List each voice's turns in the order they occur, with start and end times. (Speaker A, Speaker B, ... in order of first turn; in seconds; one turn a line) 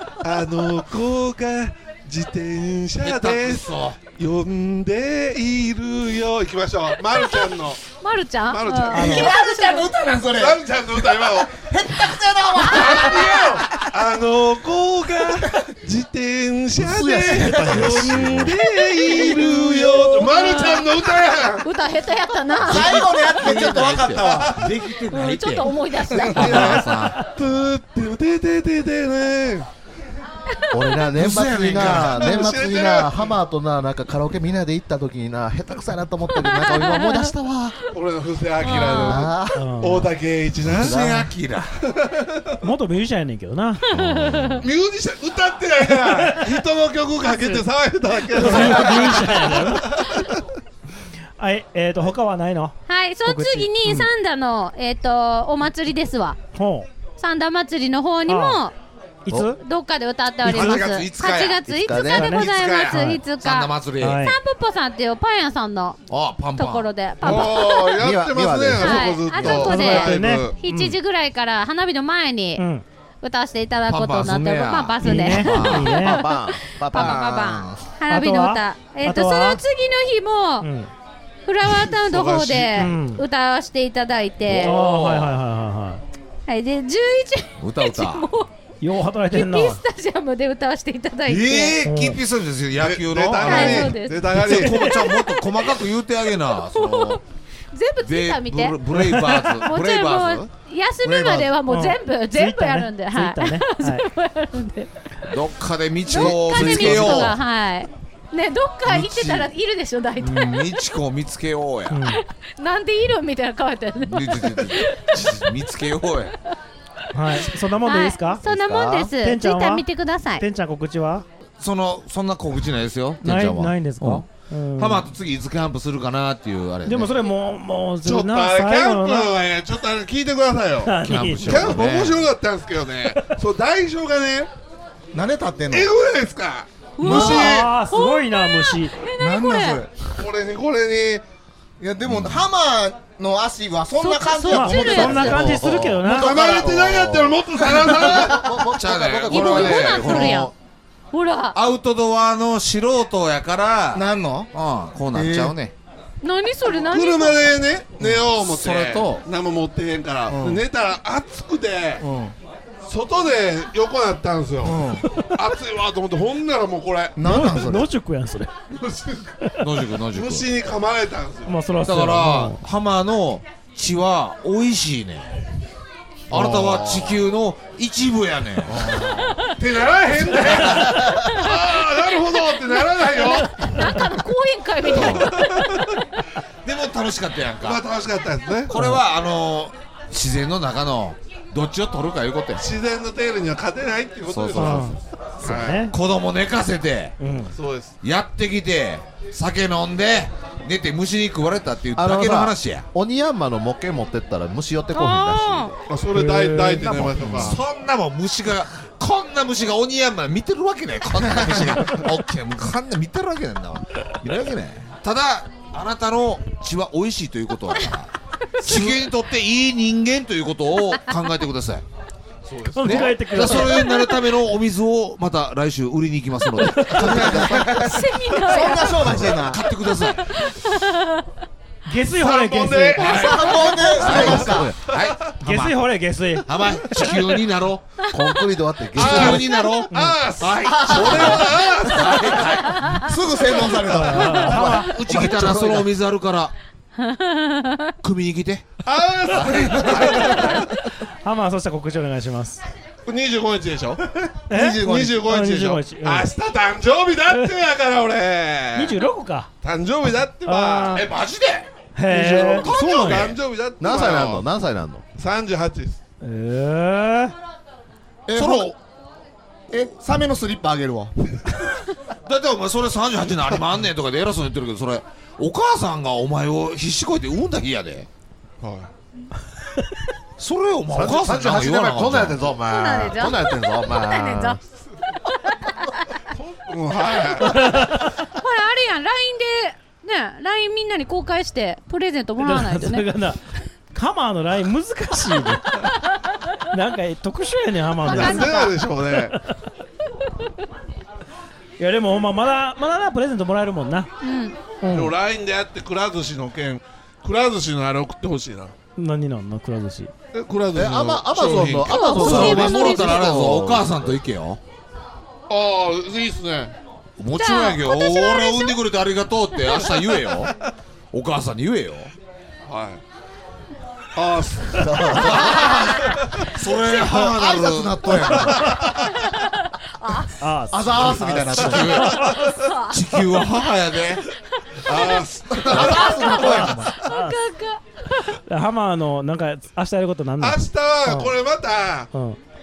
Speaker A: 0.2-7.8
Speaker B: 3.0-4.0
Speaker C: 7.1-9.9
Speaker A: 8.5-9.3
Speaker D: 8.9-9.3
Speaker E: 9.0-13.6
Speaker A: 10.3-11.7
Speaker A: 12.6-21.6
Speaker B: 13.0-13.6
Speaker F: 16.8-18.6
Speaker B: 17.7-18.6
Speaker C: 18.9-23.4
Speaker E: 22.6-24.6
Speaker B: 22.7-27.2
Speaker A: 23.6-24.7
Speaker C: 24.9-27.0
Speaker A: 26.3-29.7
Speaker F: 30.7-37.8
Speaker B: 31.1-32.5
Speaker A: 31.7-33.3
Speaker C: 36.4-37.2
Speaker A: 37.9-41.0
Speaker C: 38.6-39.3
Speaker F: 38.7-39.6
Speaker D: 39.5-40.1
Speaker B: 40.7-41.7
Speaker F: 40.7-41.3
Speaker A: 41.8-42.5
Speaker D: 42.6-43.8
Speaker F: 43.9-44.6
Speaker A: 44.6-50.4
Speaker D: 46.0-46.5
Speaker D: 48.3-49.9
Speaker D: 51.4-54.1
Speaker C: 52.9-56.4
Speaker D: 56.5-56.9
Speaker C: 57.2-58.7
Speaker D: 58.3-58.6
Speaker D: 59.2-59.6
Speaker C: 59.4-68.0
Speaker B: 60.4-64.2
Speaker F: 61.7-62.4
Speaker D: 62.1-63.2
Speaker A: 62.4-62.8
Speaker D: 64.0-64.3
Speaker B: 66.1-66.9
Speaker A: 67.2-70.5
Speaker F: 67.9-69.6
Speaker C: 68.8-72.7
Speaker D: 69.6-70.9
Speaker D: 72.5-72.8
Speaker C: 73.2-80.7
Speaker B: 73.9-76.0
Speaker D: 75.0-76.2
Speaker F: 75.8-77.6
Speaker B: 76.9-77.6
Speaker D: 78.1-79.6
Speaker D: 80.6-80.9
Speaker C: 81.5-84.8
Speaker A: 81.6-82.8
Speaker D: 82.7-83.2
Speaker B: 84.5-85.3
Speaker D: 84.6-86.0
Speaker C: 86.5-88.5
Speaker B: 87.6-88.3
Speaker D: 88.8-89.8
Speaker C: 89.3-91.8
Speaker A: 91.3-91.9
Speaker B: 91.8-97.2
Speaker D: 91.8-92.2
Speaker A: 92.7-95.0
Speaker C: 93.4-95.7
Speaker D: 94.4-94.7
Speaker C: 96.5-104.9
Speaker B: 98.0-100.5
Speaker D: 98.9-99.5
Speaker E: 101.0-101.5
Speaker D: 101.7-104.0
Speaker B: 105.3-107.4
Speaker C: 106.0-110.8
Speaker F: 106.1-107.4
Speaker B: 108.8-109.5
Speaker B: 110.3-112.0
Speaker D: 111.9-112.2
Speaker C: 112.1-115.7
Speaker B: 114.0-116.3
Speaker D: 117.1-118.4
Speaker C: 117.8-120.4
Speaker F: 118.4-119.1
Speaker D: 119.2-119.8
Speaker D: 120.3-121.2
Speaker B: 121.6-127.1
Speaker D: 123.2-125.1
Speaker D: 126.8-129.4
Speaker A: 128.0-134.5
Speaker D: 130.8-131.7
Speaker B: 131.0-132.3
Speaker E: 135.1-135.9
Speaker A: 135.7-137.7
Speaker C: 137.0-139.8
Speaker D: 137.0-138.9
Speaker E: 139.2-139.9
Speaker A: 140.2-141.2
Speaker E: 141.8-145.3
Speaker F: 142.1-142.4
Speaker C: 144.0-145.4
Speaker D: 144.5-146.3
Speaker F: 145.2-150.3
Speaker A: 146.1-148.5
Speaker E: 146.3-146.7
Speaker E: 148.1-148.4
Speaker B: 148.7-150.5
Speaker C: 149.3-150.5
Speaker C: 151.1-151.6
Speaker B: 151.5-155.7
Speaker E: 153.9-154.5
Speaker E: 155.1-155.6
Speaker C: 156.2-157.6
Speaker A: 156.6-162.0
Speaker E: 158.0-158.3
Speaker B: 158.3-159.2
Speaker E: 160.3-160.6
Speaker E: 162.0-162.3
Speaker A: 162.8-167.1
Speaker E: 164.6-165.0
Speaker E: 167.1-167.9
Speaker D: 167.2-168.5
Speaker A: 168.8-169.3
Speaker B: 169.6-170.5
Speaker A: 170.1-171.6
Speaker D: 171.5-172.6
Speaker B: 171.8-175.3
Speaker B: 176.3-178.9
Speaker F: 176.3-177.2
Speaker A: 178.8-183.8
Speaker B: 180.5-181.0
Speaker C: 182.5-185.9
Speaker B: 184.9-185.3
Speaker A: 184.9-185.8
Speaker B: 186.6-187.9
Speaker A: 187.6-188.7
Speaker B: 188.7-192.6
Speaker D: 188.7-189.0
Speaker A: 192.6-195.8
Speaker B: 194.3-197.2
Speaker D: 194.6-195.9
Speaker D: 197.2-197.5
Speaker A: 197.5-198.0
Speaker B: 198.0-202.8
Speaker F: 201.9-205.7
Speaker C: 204.9-205.7
Speaker A: 205.8-207.6
Speaker D: 206.1-207.5
Speaker B: 207.2-221.8
Speaker E: 211.2-211.8
Speaker A: 222.4-223.6
Speaker D: 222.7-223.9
Speaker B: 222.7-227.9
Speaker C: 223.8-224.3
Speaker D: 226.7-227.0
Speaker E: 227.0-229.6
Speaker C: 227.8-229.1
Speaker B: 229.1-230.2
Speaker C: 230.1-231.2
Speaker D: 231.9-233.2
Speaker A: 232.1-235.3
Speaker B: 233.0-235.9
Speaker E: 233.0-234.7
Speaker F: 234.0-234.8
Speaker D: 235.4-236.5
Speaker B: 236.4-237.8
Speaker A: 236.8-237.2
Speaker C: 238.1-238.3
Speaker F: 238.1-239.5
Speaker B: 238.9-243.0
Speaker A: 238.9-242.6
Speaker D: 239.9-240.3
Speaker E: 240.6-241.3
Speaker E: 243.0-245.7
Speaker D: 243.9-244.9
Speaker F: 244.5-245.9
Speaker B: 244.5-246.5
Speaker C: 247.0-247.9
Speaker B: 248.0-248.7
Speaker A: 248.8-250.7
Speaker B: 249.3-250.6
Speaker D: 251.2-252.6
Speaker A: 253.1-254.0
Speaker D: 254.5-256.3
Speaker E: 254.5-255.2
Speaker A: 254.8-259.0
Speaker D: 258.7-259.5
Speaker A: 259.6-261.0
Speaker D: 260.4-261.1
Speaker B: 260.9-261.7
Speaker D: 261.9-263.3
Speaker A: 262.1-264.5
Speaker B: 262.5-263.4
Speaker F: 263.8-265.0
Speaker A: 265.1-266.0
Speaker D: 266.2-267.3
Speaker E: 268.3-268.7
Speaker B: 268.3-268.7
Speaker E: 269.7-271.1
Speaker B: 272.3-278.1
Speaker A: 278.6-278.9
Speaker B: 280.4-282.6
Speaker F: 280.9-284.6
Speaker C: 282.6-284.6
Speaker C: 285.4-286.2
Speaker A: 286.3-287.7
Speaker D: 287.4-288.1
Speaker C: 288.2-293.1
Speaker D: 292.4-295.9
Speaker D: 296.7-298.6
Speaker C: 298.1-298.8
Speaker A: 298.1-299.3
Speaker D: 299.1-299.4
Speaker D: 301.8-304.1
Speaker C: 304.2-304.6
Speaker D: 304.8-305.1
Speaker A: 304.9-308.7
Speaker D: 309.0-310.1
Speaker A: 310.3-312.5
Speaker F: 310.7-314.2
Speaker B: 311.7-314.6
Speaker C: 311.8-313.3
Speaker A: 315.5-316.8
Speaker B: 317.2-320.5
Speaker C: 317.3-318.8
Speaker B: 321.1-322.1
Speaker A: 322.6-323.0
Speaker A: 324.1-326.4
Speaker F: 324.8-325.8
Speaker B: 325.2-328.9
Speaker E: 326.9-328.7
Speaker A: 328.2-328.9
Speaker C: 330.0-330.3
Speaker D: 330.4-332.5
Speaker E: 330.7-332.0
Speaker B: 331.0-334.2
Speaker A: 331.7-332.6
Speaker C: 332.4-333.0
Speaker A: 334.9-336.7
Speaker C: 334.9-338.3
Speaker E: 335.4-336.9
Speaker B: 335.6-336.7
Speaker D: 336.5-337.3
Speaker D: 338.5-341.4
Speaker A: 340.4-342.1
Speaker D: 342.1-342.4